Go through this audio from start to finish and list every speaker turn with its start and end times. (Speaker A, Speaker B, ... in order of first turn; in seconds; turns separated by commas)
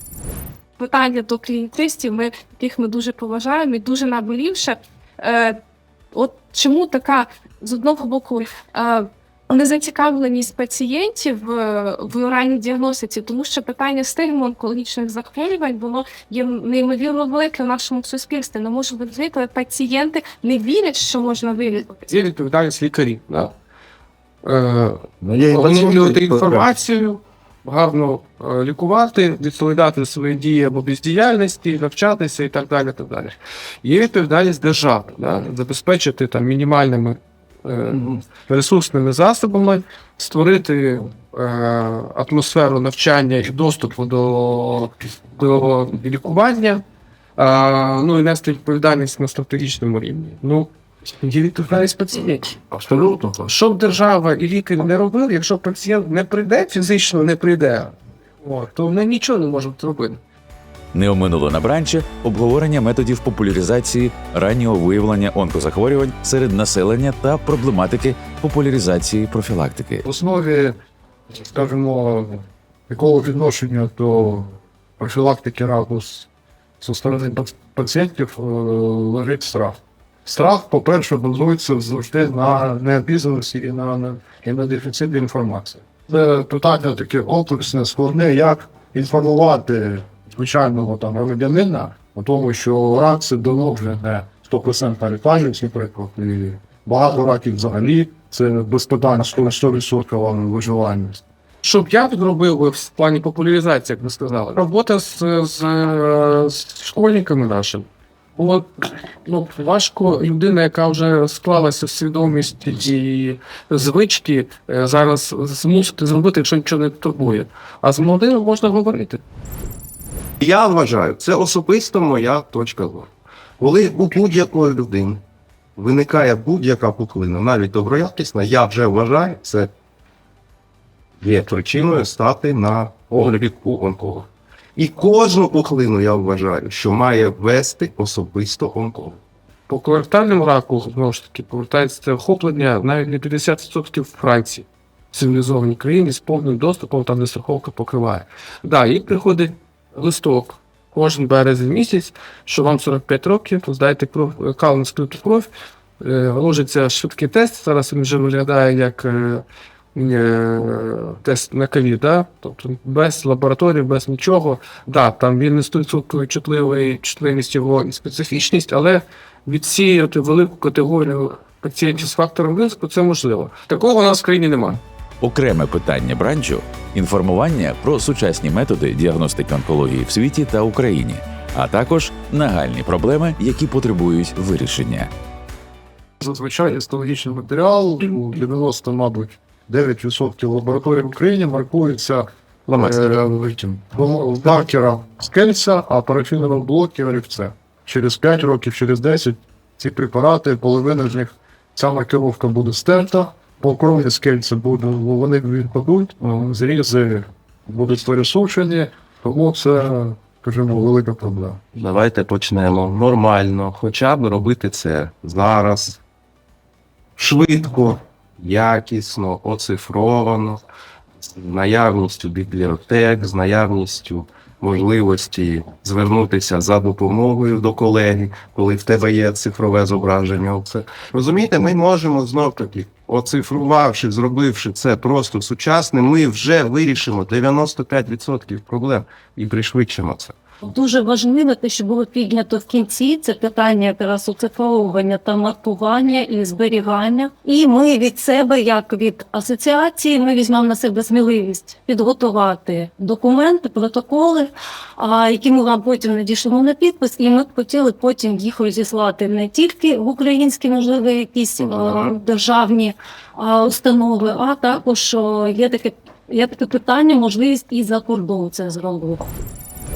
Speaker A: 0.8-5.6, Speaker A: 6.1-22.0, Speaker B: 22.0-23.5, Speaker B: 24.4-46.8, Speaker B: 47.4-60.2, Speaker C: 60.9-70.0, Speaker D: 70.0-70.8, Speaker D: 71.5-76.3, Speaker D: 76.8-101.2, Speaker B: 101.6-119.2, Speaker E: 120.4-123.1, Speaker E: 123.6-125.2, Speaker E: 125.8-129.7, Speaker E: 131.2-139.2, Speaker B: 139.7-174.8, Speaker C: 175.2-185.1, Speaker D: 186.2-211.6, Speaker E: 211.8-216.0, Speaker E: 217.2-220.6, Speaker E: 221.3-240.3, Speaker F: 240.6-269.2